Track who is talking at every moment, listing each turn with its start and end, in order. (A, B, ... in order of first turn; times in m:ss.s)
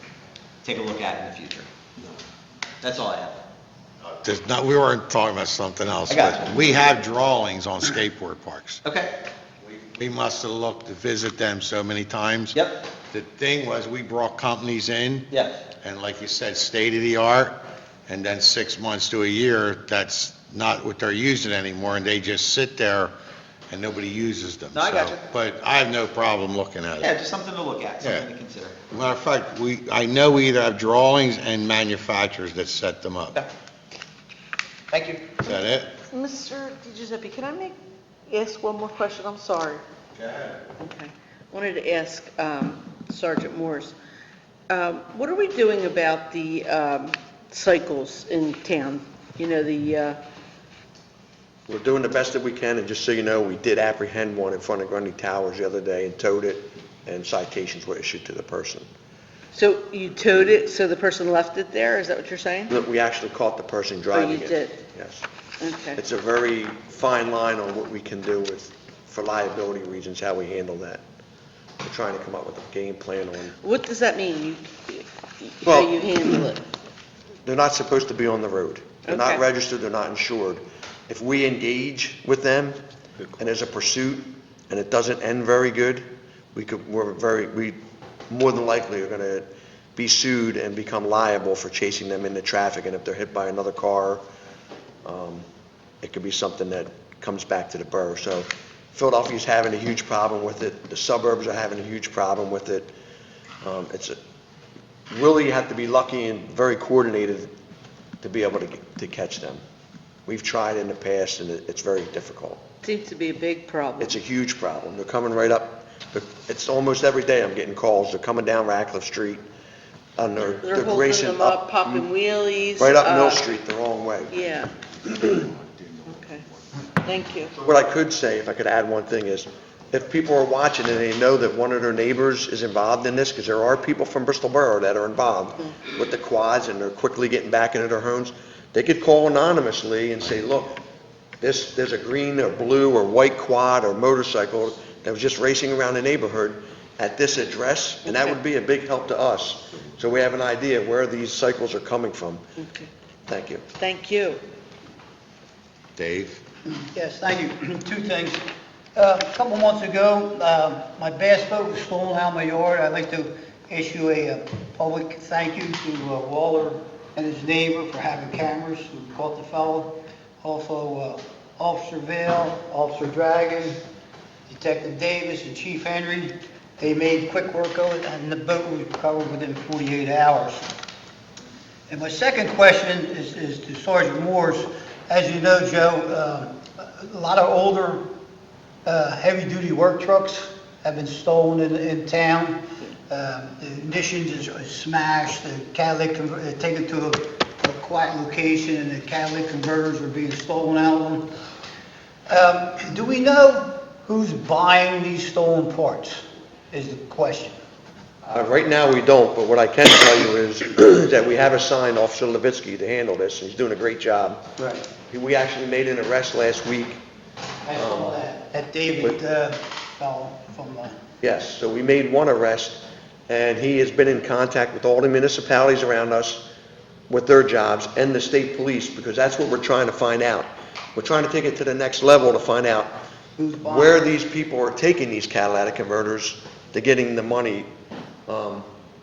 0:00.6-0:01.7 A
0:02.8-0:03.4 A
0:04.2-0:08.8 B
0:06.1-0:06.7 A
0:08.8-0:09.1 A
0:09.7-0:15.3 B
0:12.5-0:12.8 A
0:15.3-0:15.6 A
0:15.8-0:23.1 B
0:23.7-0:27.1 B
0:24.7-0:25.2 A
0:27.0-0:28.8 A
0:28.0-0:28.3 B
0:28.9-0:33.4 B
0:34.9-0:35.2 A
0:35.4-0:35.9 B
0:36.1-0:37.8 C
0:38.3-0:39.8 C
0:40.8-0:44.0 C
0:44.7-0:50.2 C
0:51.7-0:58.8 D
0:59.5-1:02.7 C
1:02.7-1:05.2 D
1:04.1-1:04.8 C
1:05.6-1:06.0 C
1:05.9-1:11.0 D
1:11.8-1:13.6 D
1:13.6-1:16.6 C
1:15.6-1:16.5 D
1:17.4-1:22.8 D
1:19.1-1:19.4 C
1:23.4-1:27.8 D
1:28.3-1:34.2 D
1:35.0-1:35.4 D
1:36.0-1:42.9 D
1:43.6-1:44.2 D
1:45.1-1:47.5 D
1:48.2-1:49.6 D
1:50.2-1:52.6 D
1:52.8-1:54.2 C
1:54.0-1:59.4 D
2:00.2-2:02.1 D
2:00.6-2:03.5 C
2:02.8-2:04.3 D
2:04.3-2:05.5 C
2:06.1-2:06.4 C
2:07.0-2:07.5 C
2:07.6-2:20.8 D
2:21.4-2:32.4 D
2:32.6-2:32.9 C
2:33.3-2:33.6 D
2:33.8-2:34.4 C
2:36.0-2:36.4 B
2:36.7-2:38.4 E
2:39.0-2:53.8 E
2:54.5-3:00.7 E
3:01.9-3:08.0 E
3:08.8-3:21.3 E
3:22.3-3:27.6 E
3:28.3-3:34.4 D
3:34.6-3:34.9 E
3:35.1-3:37.0 D
3:37.6-3:41.0 E
3:37.7-3:38.2 D
3:41.2-3:46.5 D
3:47.1-3:53.0 D
3:53.4-3:54.1 E
3:53.6-3:57.7 D
3:58.3-3:58.7 D